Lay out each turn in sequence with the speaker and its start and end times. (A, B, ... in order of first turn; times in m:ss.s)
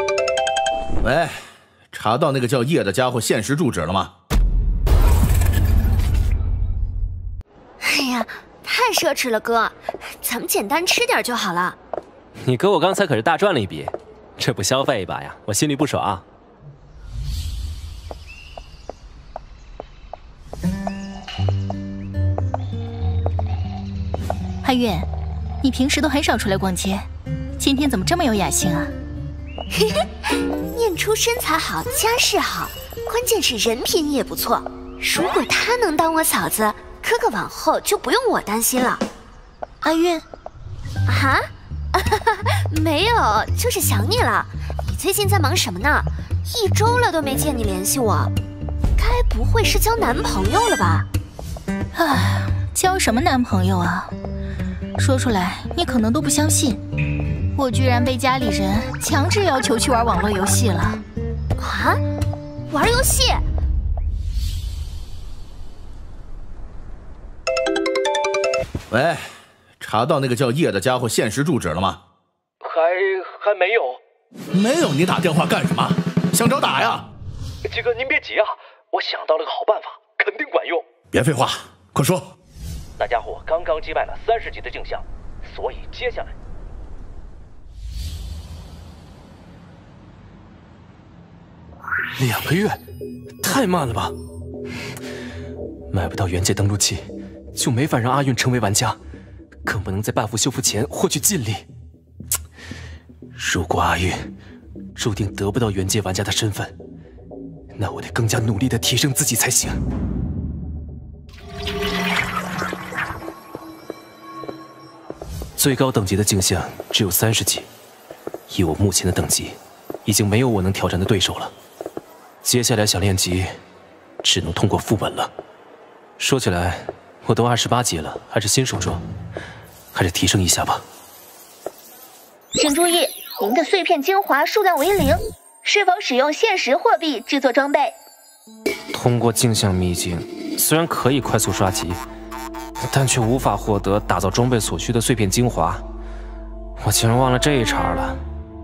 0:01.0-0:04.1 A
0:07.8-0:11.8 B
0:12.4-0:16.2 C
0:24.6-0:25.1 D
0:25.6-0:27.1 D
0:27.6-0:28.9 D
0:30.6-0:39.0 B
0:41.1-0:48.3 B
0:49.0-0:51.1 B
0:51.9-0:54.1 D
0:55.0-0:56.8 D
0:57.6-1:01.0 D
1:01.6-1:02.0 B
1:02.7-1:03.4 B
1:08.9-1:12.0 A
1:12.7-1:14.0 E
1:14.5-1:17.1 A
1:17.7-1:20.8 E
1:21.1-1:22.3 A
1:23.0-1:25.0 E
1:25.5-1:26.3 E
1:32.2-1:32.8 C
1:33.4-1:34.1 C
1:35.9-1:39.0 C
1:39.6-1:41.6 C
1:43.4-1:44.2 C
1:45.0-1:46.7 C
1:47.8-1:49.8 C
1:55.6-1:57.7 C
1:58.5-2:01.5 C
2:02.4-2:03.6 C
2:04.2-2:05.3 C
2:06.2-2:09.0 C
2:09.9-2:10.8 C
2:12.6-2:17.9 F
2:18.9-2:22.0 C
2:22.9-2:25.8 C
2:26.8-2:28.2 C